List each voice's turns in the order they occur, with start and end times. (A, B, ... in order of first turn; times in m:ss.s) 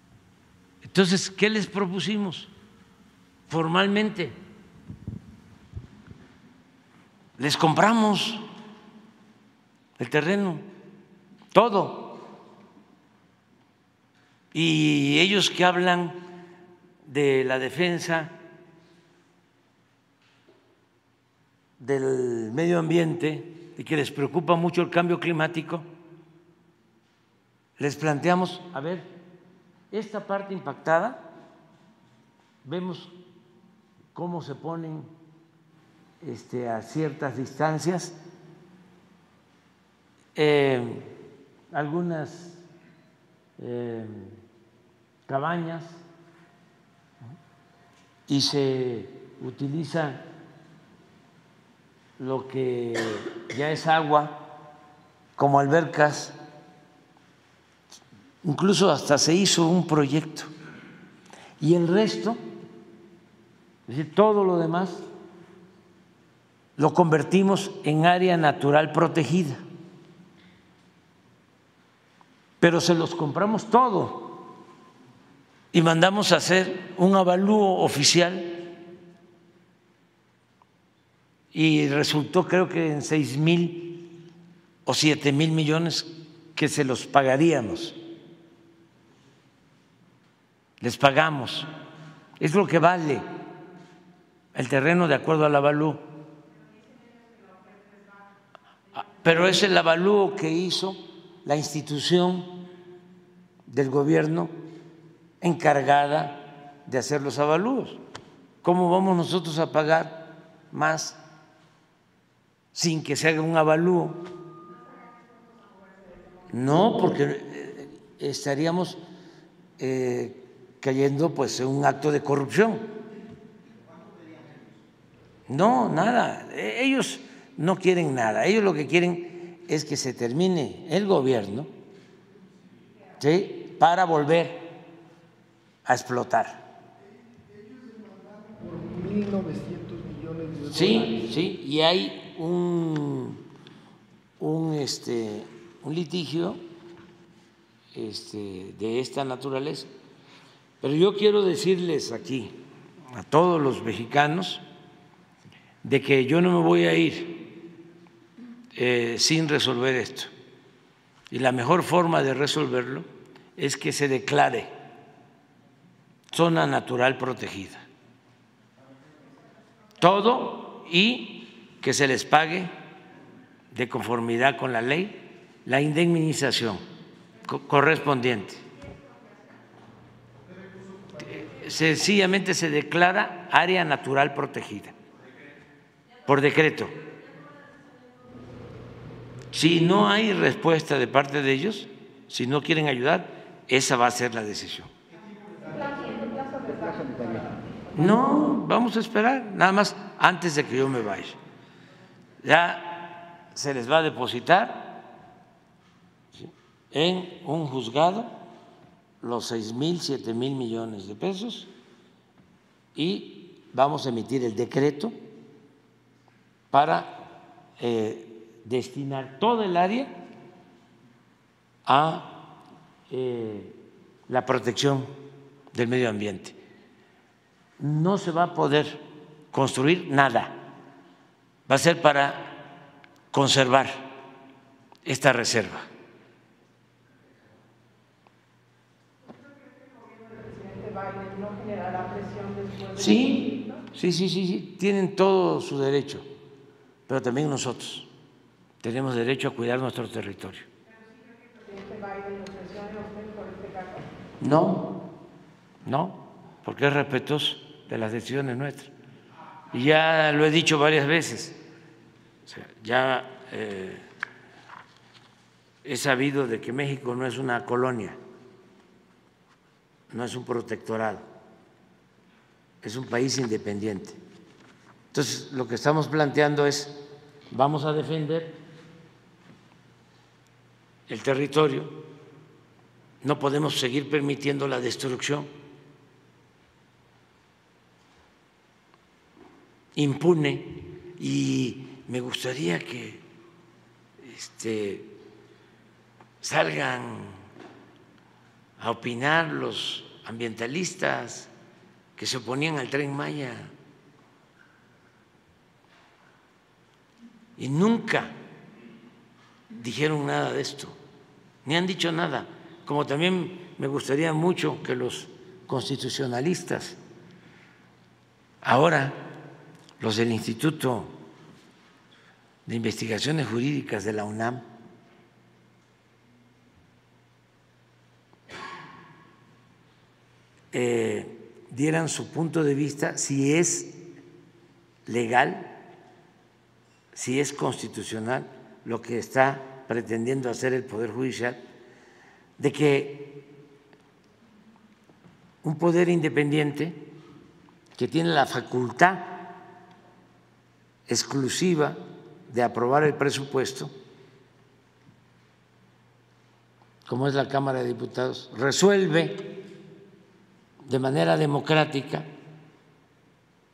0:00.8-0:02.5 A
0:03.5-0:04.4 A
0:07.4-0:08.4 A
0:10.0-0:10.7 A
0:11.5-0:12.2 A
0:14.5-0:16.2 A
0:17.0-0:18.4 A
0:21.8-0:25.9 A
0:27.8-0:29.1 A
0:29.9-0:31.3 A
0:32.6-0:33.1 A
0:34.2-0:35.1 A
0:36.2-0:38.2 A
0:40.4-0:41.1 A
0:41.7-0:42.6 A
0:43.6-0:44.4 A
0:45.3-0:46.0 A
0:48.3-0:50.2 A
0:52.2-0:54.4 A
0:55.4-0:56.4 A
0:58.4-1:00.5 A
1:01.6-1:02.4 A
1:03.9-1:05.0 A
1:06.8-1:09.6 A
1:12.6-1:14.5 A
1:15.7-1:18.6 A
1:21.5-1:24.1 A
1:24.8-1:28.0 A
1:30.8-1:31.7 A
1:32.4-1:33.3 A
1:34.5-1:36.0 A
1:39.0-1:42.7 A
1:43.7-1:44.5 A
1:45.4-1:48.0 A
1:48.6-1:51.2 A
1:52.7-1:54.3 A
1:56.5-1:59.0 A
1:59.8-2:03.0 A
2:05.5-2:11.7 A
2:13.2-2:14.7 A
2:15.8-2:16.7 A
2:20.6-2:23.4 A
2:24.4-2:26.6 A
2:27.9-2:29.9 A
2:30.8-2:32.6 A
2:33.1-2:34.6 A
2:35.8-2:37.5 A
2:38.8-2:40.3 A
2:41.3-2:44.7 A
2:46.3-2:47.8 A
2:50.0-2:52.7 A
2:53.7-2:56.8 A
2:57.4-2:58.6 A
3:01.2-3:05.0 A
3:06.2-3:07.0 A
3:09.5-3:14.9 A
3:18.0-3:21.4 A
3:22.4-3:25.0 A
3:26.4-3:28.4 A
3:29.2-3:31.7 A
3:33.0-3:35.2 A
3:36.7-3:40.1 A
3:41.9-3:43.8 A
3:44.3-3:45.1 A
3:45.7-3:46.6 A
3:47.8-3:50.6 A
3:51.7-3:52.5 A
3:53.3-3:54.1 A
3:55.0-3:55.9 A
4:02.8-4:06.3 A
4:07.1-4:08.1 A
4:08.8-4:10.7 A
4:14.4-4:14.9 A
4:15.8-4:18.9 A
4:19.7-4:21.6 A
4:22.5-4:24.1 A
4:25.8-4:28.2 A
4:30.1-4:31.3 A
4:32.8-4:34.2 A
4:35.1-4:38.6 A
4:41.1-4:42.0 A
4:43.2-4:45.5 A
4:50.0-4:53.2 A
4:54.2-4:55.1 A
4:56.4-4:57.4 A
4:58.8-5:01.5 A
5:02.2-5:03.7 A
5:07.6-5:08.4 A
5:09.7-5:11.0 A
5:11.6-5:17.0 A
5:18.6-5:19.3 A
5:20.0-5:21.2 A
5:22.7-5:24.7 A
5:30.7-5:34.0 A
5:35.1-5:35.7 A
5:37.1-5:41.6 A
5:42.6-5:43.4 A
5:45.6-5:47.1 A
5:48.0-5:49.6 A
5:51.1-5:53.9 A
5:57.1-5:59.6 A
6:00.8-6:02.3 A